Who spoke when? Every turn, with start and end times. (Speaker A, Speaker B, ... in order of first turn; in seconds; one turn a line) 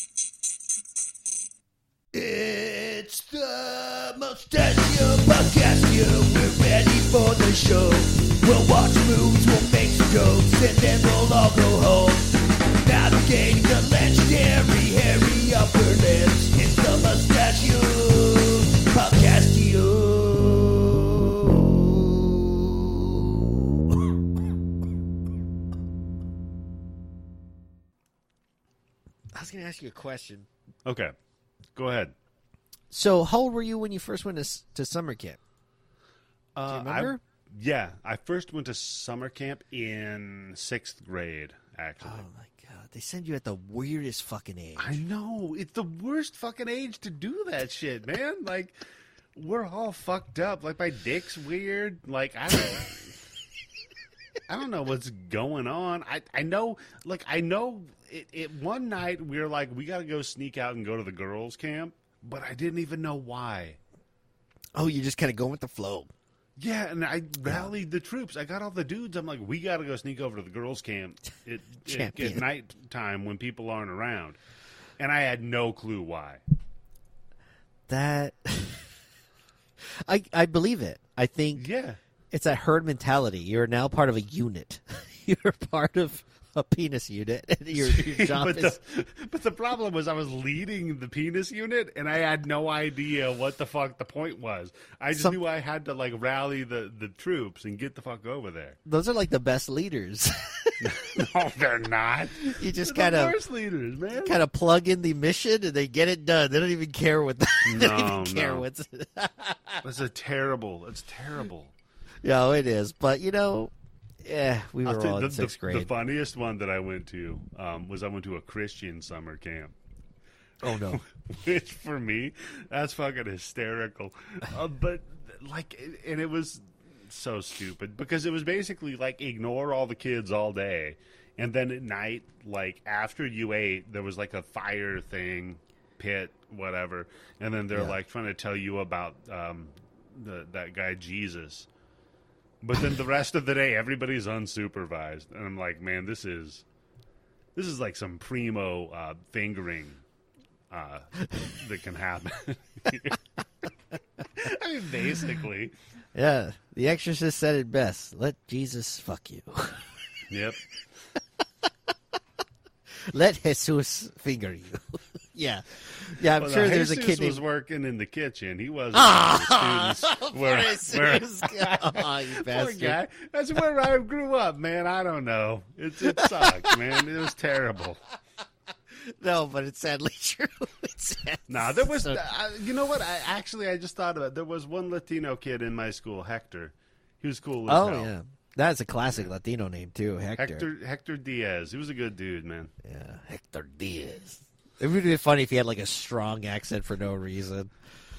Speaker A: 2.1-22.6
Speaker B: 29.3-30.5
Speaker C: 30.9-31.1
Speaker C: 31.8-32.1
Speaker B: 32.9-35.4
Speaker C: 36.6-42.2
Speaker B: 36.6-37.2
Speaker B: 42.0-45.0
Speaker C: 44.8-48.8
Speaker C: 49.4-53.2
Speaker C: 54.5-63.8
Speaker B: 64.8-66.1
Speaker C: 66.6-74.4
Speaker B: 71.9-72.4
Speaker C: 75.0-76.4
Speaker B: 77.9-78.9
Speaker B: 79.9-81.7
Speaker C: 81.5-82.0
Speaker B: 82.3-88.8
Speaker C: 87.7-98.8
Speaker B: 98.9-100.8
Speaker C: 100.8-104.4
Speaker B: 102.5-103.4
Speaker B: 104.2-109.8
Speaker C: 107.7-108.6
Speaker C: 109.8-111.7
Speaker B: 112.2-113.7
Speaker B: 114.2-115.9
Speaker C: 114.8-119.7
Speaker B: 120.6-121.0
Speaker C: 120.7-141.7
Speaker C: 142.6-146.6
Speaker C: 147.6-150.0
Speaker C: 150.7-153.2
Speaker C: 154.3-155.8
Speaker B: 156.2-159.9
Speaker C: 160.3-160.6
Speaker B: 163.1-167.4
Speaker C: 166.4-178.0
Speaker B: 168.9-173.0
Speaker B: 176.0-176.8
Speaker B: 179.0-182.2
Speaker C: 181.5-188.1
Speaker B: 187.7-190.7
Speaker C: 190.4-192.7
Speaker B: 192.8-197.7